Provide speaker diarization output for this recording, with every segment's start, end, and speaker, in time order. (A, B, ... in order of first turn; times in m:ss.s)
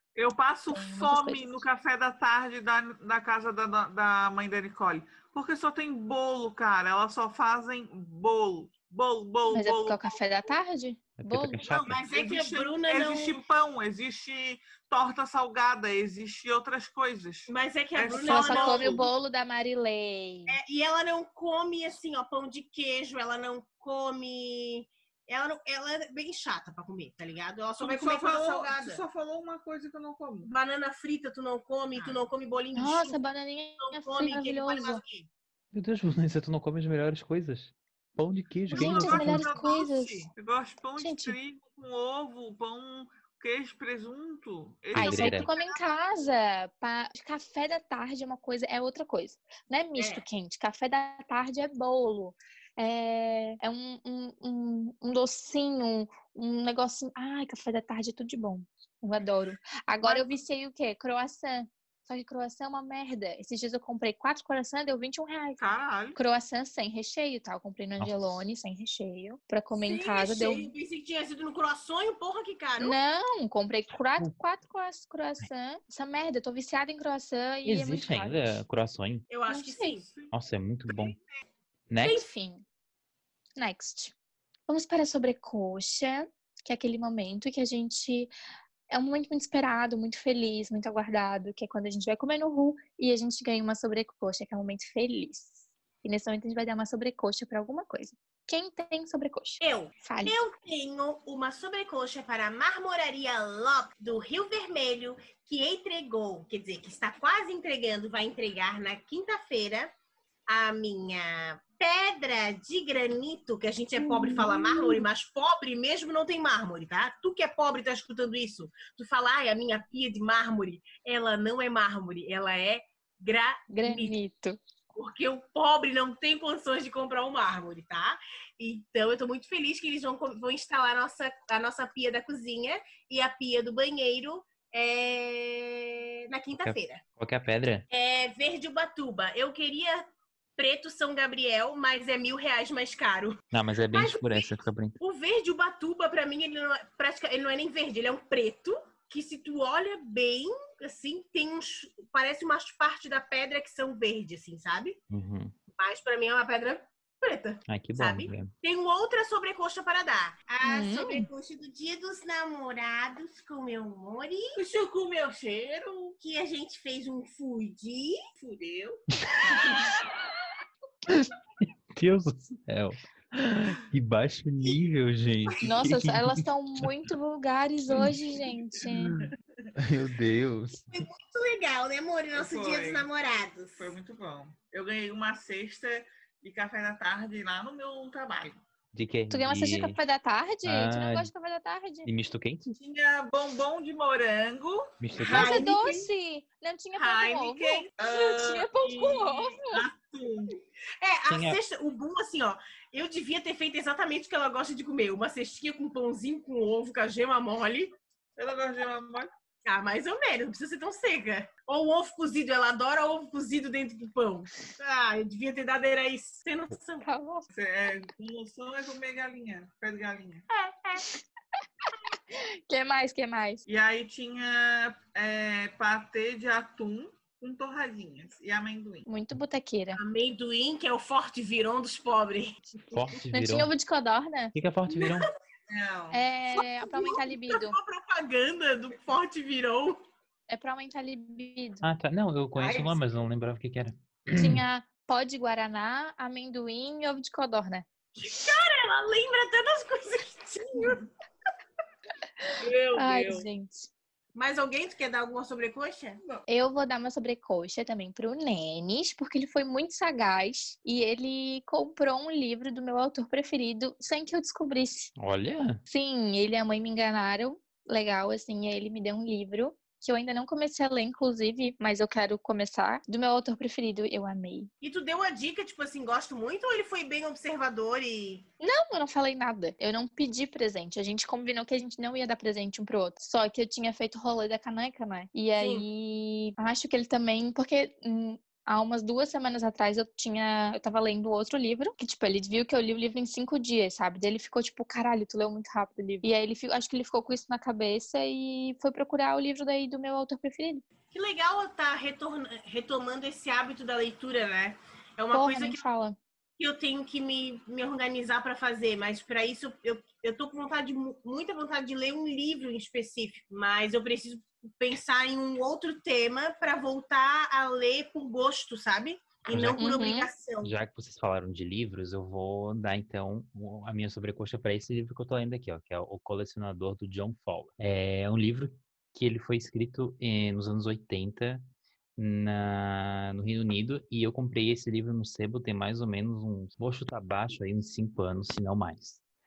0:00.1-0:10.2 A
0:00.7-0:01.6 B
0:09.5-0:11.7 B
0:11.2-0:12.0 C
0:11.6-0:13.4 D
0:12.1-0:19.1 A
0:17.5-0:19.0 D
0:18.1-0:20.6 B
0:20.5-0:29.0 D
0:27.8-0:30.5 A
0:30.4-0:33.2 D
0:31.9-0:32.2 A
0:32.7-0:35.0 B
0:33.8-0:35.3 D
0:35.7-0:39.5 C
0:38.7-0:45.5 A
0:38.7-0:40.3 B
0:41.0-0:41.4 B
0:44.9-0:45.5 C
0:44.9-1:10.7 B
0:45.3-0:45.8 D
0:50.0-0:50.2 D
1:05.6-1:06.2 A
1:09.8-1:13.0 D
1:12.8-1:18.6 B
1:17.6-1:19.2 C
1:19.3-1:20.0 D
1:19.5-1:20.0 B
1:20.0-1:20.3 A
1:20.3-1:21.2 C
1:20.9-1:21.2 A
1:21.9-1:22.2 C
1:22.0-1:22.3 D
1:22.0-1:22.6 B
1:23.6-1:24.1 B
1:24.7-1:28.3 B
1:28.9-1:40.4 B
1:39.6-1:49.9 D
1:50.5-2:04.2 D
1:54.0-1:55.0 B
2:03.7-2:04.6 B
2:04.9-2:17.0 D
2:16.5-2:17.9 C
2:17.9-2:35.0 D
2:23.5-2:25.0 C
2:35.1-2:35.6 C
2:35.8-2:44.6 D
2:37.7-2:38.5 C
2:40.6-2:41.3 B
2:44.5-2:46.2 A
2:46.2-2:48.3 D
2:48.4-2:49.0 A
2:49.2-2:49.7 C
2:51.1-2:51.3 C
2:51.9-2:56.8 C
2:55.6-2:59.2 B
2:58.9-2:59.2 C
2:59.8-3:00.9 C
3:00.9-3:03.9 D
3:02.3-3:03.0 A
3:03.8-3:08.6 A
3:08.9-3:10.0 C
3:09.3-3:12.1 B
3:10.6-3:11.3 C
3:12.0-3:12.8 C
3:12.8-3:14.9 A
3:15.0-3:15.6 C
3:15.2-3:16.1 D
3:15.3-3:19.8 B
3:17.0-3:20.6 A
3:21.0-3:27.9 D
3:21.3-3:21.6 C
3:28.4-3:29.3 A
3:29.6-3:37.1 D
3:37.0-3:37.5 B
3:37.5-3:40.4 A
3:40.5-3:41.0 D
3:42.1-3:43.6 B
3:43.7-3:49.0 A
3:49.0-3:50.0 B
3:49.9-3:52.7 D
3:52.9-3:53.7 C
3:53.3-3:54.5 B
3:54.5-3:55.3 C
3:54.9-3:55.2 D
3:55.7-3:56.2 A
3:56.1-3:57.8 B
3:56.5-4:00.0 D
4:00.5-4:01.8 B
4:01.8-4:04.6 C
4:02.6-4:03.0 D
4:04.4-4:07.9 B
4:08.2-4:11.1 D
4:12.4-4:13.9 B
4:12.6-4:13.5 D
4:14.3-4:16.2 D
4:16.5-4:25.1 B
4:25.2-4:25.8 C
4:25.9-4:34.7 B
4:34.8-4:38.4 D
4:38.6-5:00.8 B
4:45.6-4:45.8 D
5:01.1-5:05.8 D
5:05.3-5:06.2 B
5:06.6-5:20.7 D
5:19.5-5:19.8 C
5:19.8-5:20.3 B
5:20.6-5:31.6 C
5:32.2-5:39.2 C